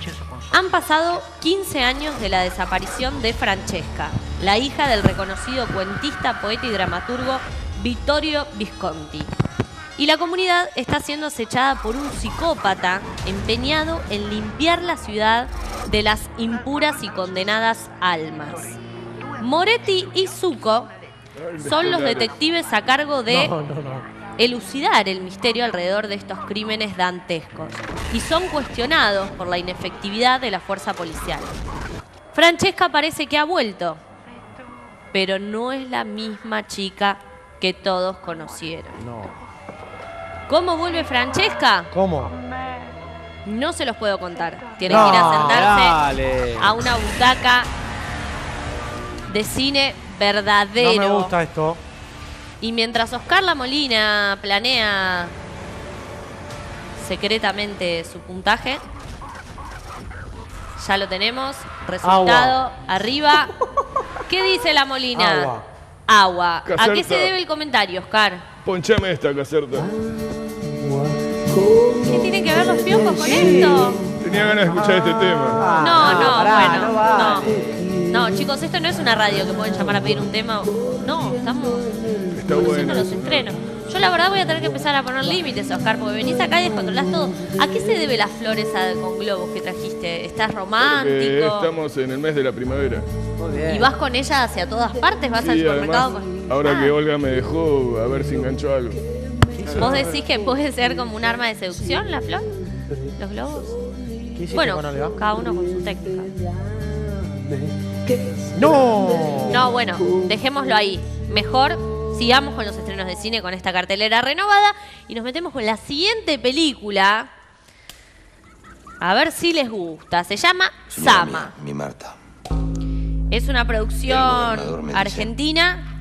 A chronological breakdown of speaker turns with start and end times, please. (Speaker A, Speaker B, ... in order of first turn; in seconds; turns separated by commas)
Speaker A: 0.5-9.3, Speaker A: 10.0-18.8, Speaker A: 19.4-20.9, Speaker B: 21.4-22.3, Speaker A: 21.6-23.5, Speaker C: 23.3-24.1, Speaker A: 24.4-31.5, Speaker A: 32.3-34.0, Speaker A: 35.1-39.0, Speaker C: 39.0-39.3, Speaker A: 40.5-41.9, Speaker C: 41.9-42.4, Speaker A: 43.4-46.0, Speaker C: 44.8-45.7, Speaker D: 44.9-46.7, Speaker A: 46.6-47.7, Speaker A: 49.3-51.3, Speaker C: 50.8-51.8, Speaker A: 52.6-55.3, Speaker A: 57.0-58.8, Speaker A: 60.8-63.5, Speaker C: 62.0-62.6, Speaker A: 64.2-65.5, Speaker C: 65.1-65.6, Speaker A: 66.1-68.5, Speaker B: 66.6-67.3, Speaker B: 68.6-69.9, Speaker A: 71.9-74.0, Speaker D: 73.0-73.9, Speaker B: 74.1-75.7, Speaker D: 75.5-77.9, Speaker A: 75.8-81.8, Speaker B: 82.3-83.5, Speaker A: 82.5-91.7, Speaker B: 90.8-93.1, Speaker D: 93.4-93.9, Speaker A: 93.7-96.9, Speaker B: 95.4-99.0, Speaker C: 99.6-100.2, Speaker A: 99.8-102.5, Speaker A: 103.2-103.8, Speaker C: 104.3-105.2, Speaker A: 104.5-106.3, Speaker C: 108.5-109.7, Speaker A: 109.5-117.3, Speaker A: 119.0-121.5, Speaker E: 120.9-122.2, Speaker A: 123.3-125.8, Speaker E: 124.0-125.3